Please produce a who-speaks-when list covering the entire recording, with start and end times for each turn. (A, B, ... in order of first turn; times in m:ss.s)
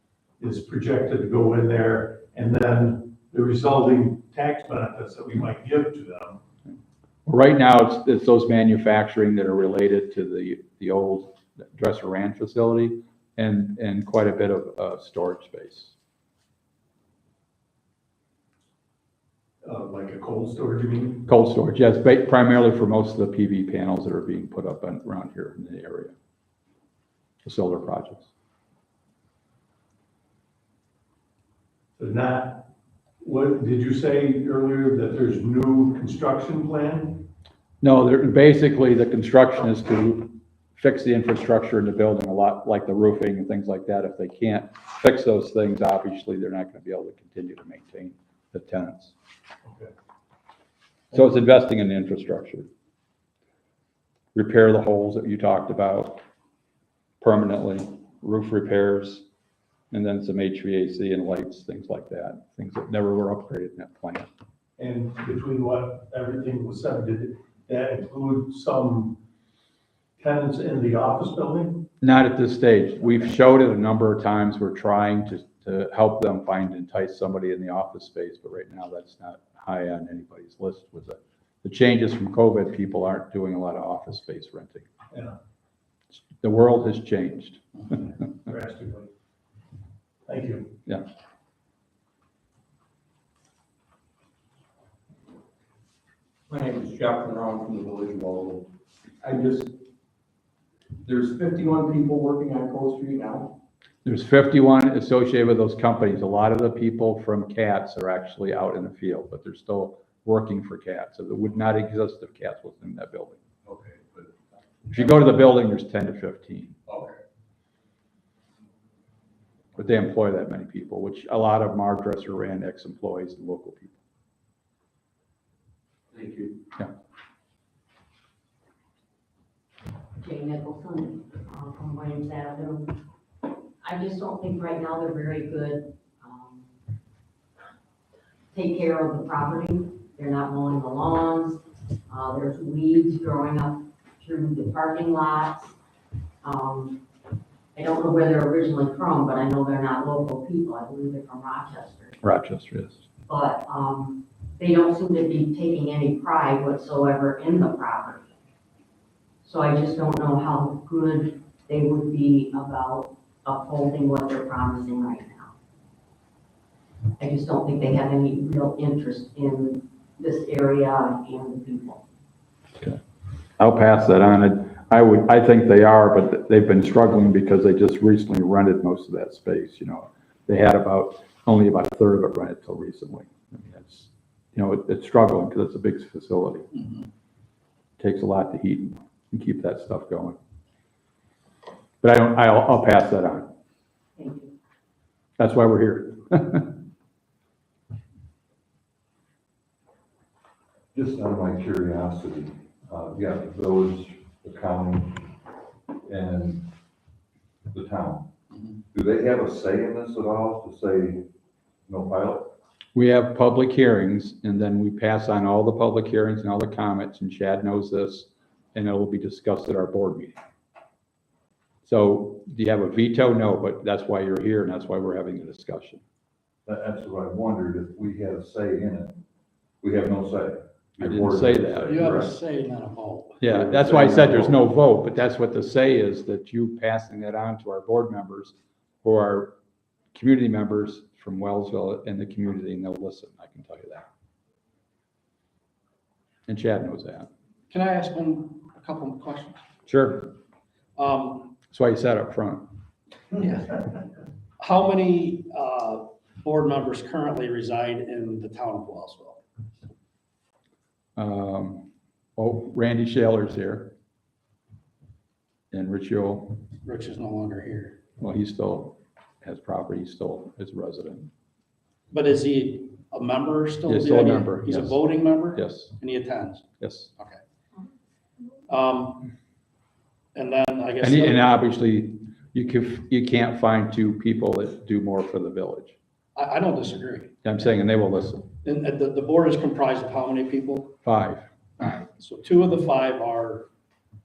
0:00.4-0:06.4 A
0:07.3-0:15.9 B
0:19.6-0:21.3 A
0:21.3-0:26.1 B
0:27.4-0:28.3 B
0:32.0-0:32.7 A
0:33.2-0:37.3 A
0:37.8-0:49.1 B
0:49.6-0:49.9 A
0:51.1-0:52.7 B
0:54.4-0:56.2 B
0:57.2-0:59.2 B
0:59.9-1:04.3 B
1:04.8-1:09.2 A
1:10.2-1:11.9 A
1:12.0-1:24.9 B
1:26.4-1:28.0 B
1:28.4-1:29.1 A
1:30.3-1:30.8 A
1:36.5-1:38.6 C
1:39.2-1:39.7 C
1:41.1-1:43.5 C
1:44.0-1:53.4 B
1:54.9-1:56.8 B
1:59.8-2:04.0 B
2:06.2-2:06.4 C
2:10.2-2:12.9 D
2:13.8-2:16.7 D
2:18.5-2:25.8 D
2:26.4-2:27.0 D
2:27.8-2:32.2 D
2:32.2-2:33.0 B
2:33.3-2:38.3 D
2:39.4-2:45.5 D
2:47.2-2:52.0 D
2:53.6-3:06.7 B
3:08.0-3:10.4 B
3:12.0-3:13.5 B
3:14.2-3:14.5 D
3:15.4-3:16.8 B
3:20.9-3:25.3 E
3:26.0-3:26.6 E
3:27.7-3:28.3 E
3:28.9-3:31.2 E
3:31.9-3:32.5 E
3:33.0-3:40.4 B
3:41.8-3:46.0 B
3:46.7-3:49.2 E
3:49.8-3:52.4 E
3:51.0-3:52.0 B
3:51.9-3:53.4 F
3:53.4-3:59.6 B
3:53.5-3:54.6 E
4:00.1-4:04.0 B
4:06.5-4:07.3 B
4:07.7-4:09.6 F
4:09.9-4:10.4 B
4:11.0-4:11.5 F
4:11.7-4:12.7 B
4:13.4-4:13.9 F
4:14.6-4:19.4 F
4:21.2-4:23.9 B
4:25.7-4:26.6 B
4:26.8-4:28.0 F
4:28.2-4:31.3 B
4:32.1-4:36.6 F
4:33.9-4:36.0 B
4:36.8-4:37.1 B
4:38.7-4:39.3 F
4:40.4-4:41.5 F
4:41.0-4:46.0 B
4:46.4-4:47.3 F
4:47.4-4:48.5 B
4:48.6-4:51.0 F
4:51.0-4:51.5 B
4:51.8-4:53.7 F